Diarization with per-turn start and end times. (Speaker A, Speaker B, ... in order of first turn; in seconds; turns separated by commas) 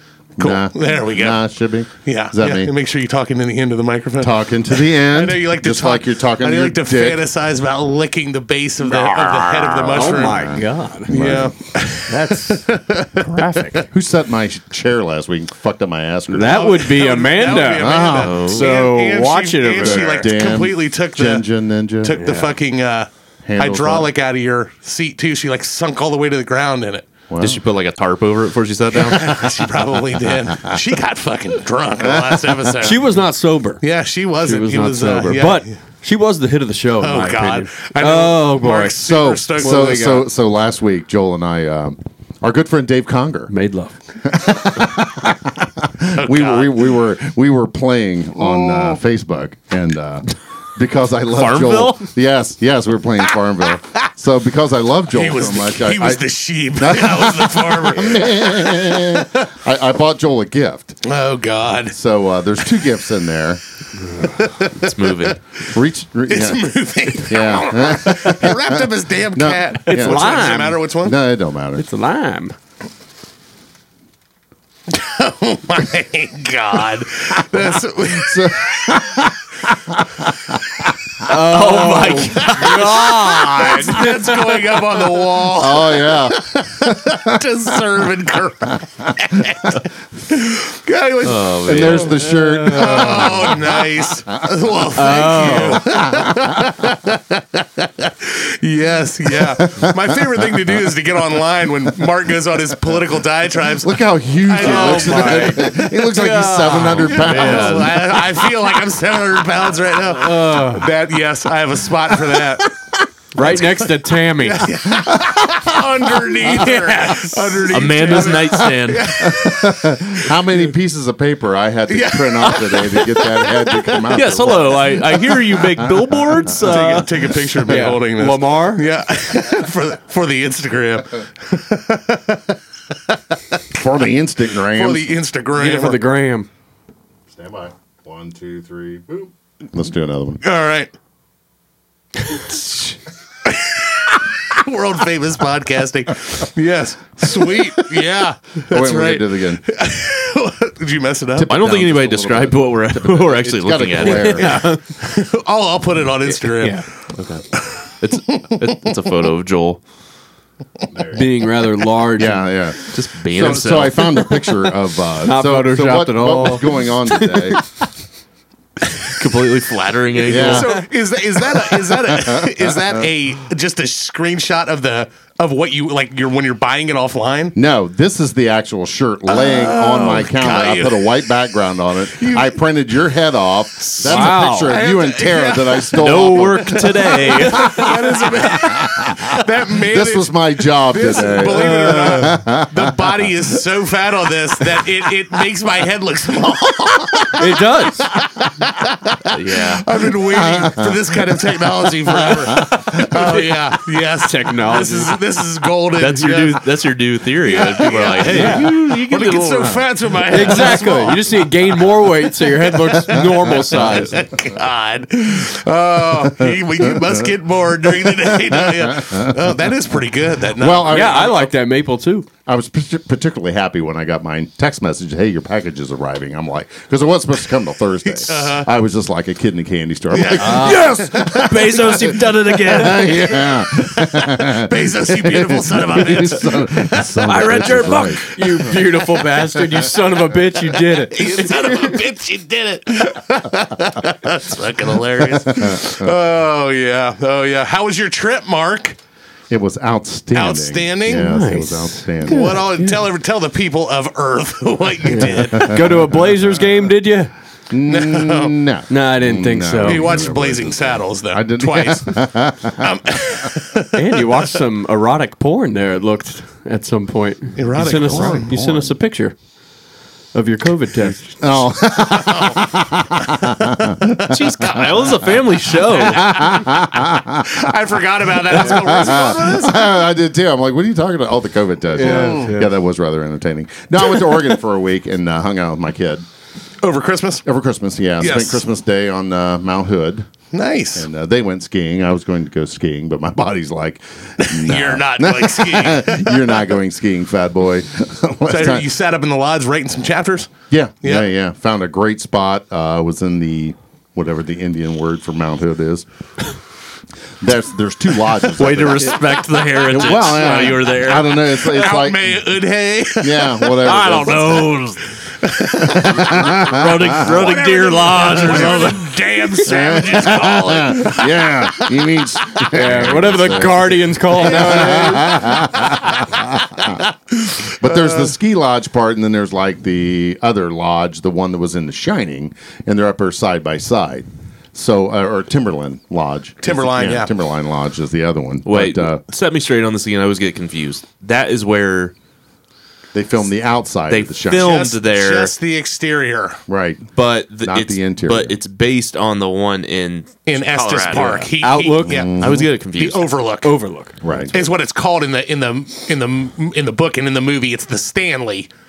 Speaker A: 0.4-2.7, Speaker B: 0.4-1.4, Speaker B: 2.0-13.9, Speaker A: 4.2-7.2, Speaker C: 9.0-11.2, Speaker A: 10.1-11.5, Speaker C: 13.4-13.8, Speaker A: 13.9-16.7, Speaker C: 16.3-20.3, Speaker B: 16.4-21.4, Speaker A: 17.5-18.4, Speaker D: 18.2-18.7, Speaker A: 19.8-22.2, Speaker B: 22.0-27.1, Speaker C: 22.1-22.6, Speaker A: 23.4-24.1, Speaker A: 27.3-27.6, Speaker D: 27.4-29.5, Speaker B: 28.9-33.0, Speaker A: 32.1-32.7, Speaker C: 32.8-33.8, Speaker B: 33.8-35.7, Speaker C: 34.4-39.0, Speaker B: 37.0-40.2, Speaker A: 39.0-43.5, Speaker C: 39.6-40.2, Speaker C: 43.5-44.0, Speaker A: 44.2-56.2, Speaker B: 46.1-46.8, Speaker D: 51.3-52.0, Speaker B: 55.1-59.5, Speaker A: 56.8-61.0, Speaker B: 61.0-62.0, Speaker A: 61.9-63.6, Speaker B: 64.1-65.3, Speaker D: 64.8-65.4, Speaker A: 65.7-71.8, Speaker B: 66.3-71.2, Speaker C: 69.9-70.8, Speaker C: 71.8-72.6, Speaker B: 74.9-79.0, Speaker A: 78.0-80.9, Speaker C: 81.2-84.6, Speaker D: 81.3-83.0, Speaker B: 81.9-92.1, Speaker A: 85.4-87.4, Speaker D: 91.2-92.2, Speaker A: 91.6-94.4, Speaker C: 91.9-93.2, Speaker B: 92.7-105.8, Speaker C: 94.9-95.9, Speaker A: 95.9-96.5, Speaker A: 99.5-100.2, Speaker A: 103.7-108.6, Speaker C: 104.6-108.0, Speaker B: 106.7-112.8, Speaker C: 110.0-110.9, Speaker C: 113.3-114.9, Speaker B: 113.4-113.7, Speaker B: 114.4-120.3, Speaker A: 114.9-115.8, Speaker A: 116.4-117.4, Speaker D: 117.7-119.2, Speaker A: 118.3-126.1, Speaker B: 121.9-124.1, Speaker D: 124.1-127.3, Speaker B: 126.6-132.6, Speaker C: 127.6-128.9, Speaker A: 133.7-135.1, Speaker B: 134.7-136.0, Speaker C: 135.5-136.5, Speaker A: 137.3-140.4, Speaker B: 140.4-140.9, Speaker B: 143.4-151.5, Speaker A: 147.2-148.1, Speaker A: 148.7-149.6, Speaker A: 151.3-154.7, Speaker D: 151.5-154.8, Speaker C: 154.0-154.7, Speaker B: 155.0-156.8, Speaker C: 156.6-156.9, Speaker D: 157.1-159.8, Speaker B: 157.6-158.7, Speaker C: 160.9-162.4, Speaker A: 162.2-167.6, Speaker D: 162.8-164.2, Speaker C: 165.2-167.6, Speaker D: 169.0-170.8, Speaker B: 170.2-177.6, Speaker A: 170.2-170.8, Speaker A: 171.9-173.1, Speaker A: 177.6-187.8, Speaker B: 179.3-181.2, Speaker B: 182.1-182.6, Speaker B: 184.0-206.7, Speaker C: 184.0-184.8, Speaker D: 185.9-187.9, Speaker C: 186.4-188.1, Speaker A: 188.3-193.2, Speaker C: 191.6-192.3, Speaker C: 197.3-198.2, Speaker D: 199.3-199.9, Speaker A: 200.3-201.2, Speaker A: 202.2-203.4, Speaker C: 204.2-205.2, Speaker D: 205.9-209.8, Speaker B: 207.4-221.2, Speaker C: 208.3-208.7, Speaker C: 210.3-214.3, Speaker A: 213.1-213.8, Speaker A: 216.1-217.2, Speaker A: 217.9-219.6, Speaker A: 220.5-221.5, Speaker C: 220.9-222.3, Speaker A: 222.4-239.9, Speaker B: 228.1-228.7, Speaker B: 230.1-230.9, Speaker C: 230.3-233.6, Speaker D: 230.7-233.1, Speaker B: 234.4-237.0, Speaker C: 236.8-241.4, Speaker D: 237.6-237.9, Speaker B: 241.1-249.0, Speaker A: 245.2-246.1, Speaker A: 249.5-252.6, Speaker B: 250.3-251.4, Speaker C: 251.1-253.0, Speaker B: 252.2-255.9, Speaker C: 255.1-257.3, Speaker A: 255.2-256.2, Speaker A: 257.7-262.9, Speaker B: 257.9-258.6, Speaker C: 258.9-260.2, Speaker B: 259.8-264.4, Speaker C: 263.9-269.3, Speaker B: 267.6-268.5, Speaker A: 268.1-268.9, Speaker C: 270.3-271.5, Speaker A: 271.4-275.0, Speaker B: 272.1-272.6, Speaker B: 273.3-274.1, Speaker D: 274.3-276.5, Speaker A: 276.0-277.7, Speaker B: 276.2-279.8, Speaker A: 278.4-286.2, Speaker C: 281.9-282.7, Speaker B: 282.0-282.5, Speaker B: 286.8-287.4, Speaker A: 287.4-290.3, Speaker B: 288.2-288.6, Speaker B: 290.5-291.1, Speaker A: 290.9-298.9, Speaker B: 294.4-296.7, Speaker B: 298.4-301.3, Speaker A: 300.7-306.1, Speaker A: 307.4-312.4, Speaker D: 308.6-311.4, Speaker B: 310.1-310.4, Speaker B: 311.5-313.9, Speaker A: 313.2-314.8, Speaker D: 313.8-315.2, Speaker B: 315.4-316.6, Speaker A: 315.8-317.3, Speaker D: 316.0-319.2, Speaker B: 317.2-322.7, Speaker A: 318.5-318.9, Speaker A: 319.7-327.0, Speaker C: 322.6-325.7, Speaker B: 324.3-328.3, Speaker A: 327.6-339.2, Speaker B: 336.6-337.3, Speaker D: 338.6-342.1, Speaker A: 343.1-344.8, Speaker D: 344.1-345.5, Speaker B: 344.5-346.6, Speaker A: 346.7-347.1, Speaker D: 347.1-351.4, Speaker A: 347.6-348.5, Speaker B: 350.5-352.3, Speaker C: 351.1-352.6, Speaker A: 352.0-352.7, Speaker D: 352.4-353.3, Speaker B: 352.9-353.8, Speaker C: 353.6-354.2, Speaker A: 354.2-354.6, Speaker B: 354.5-358.7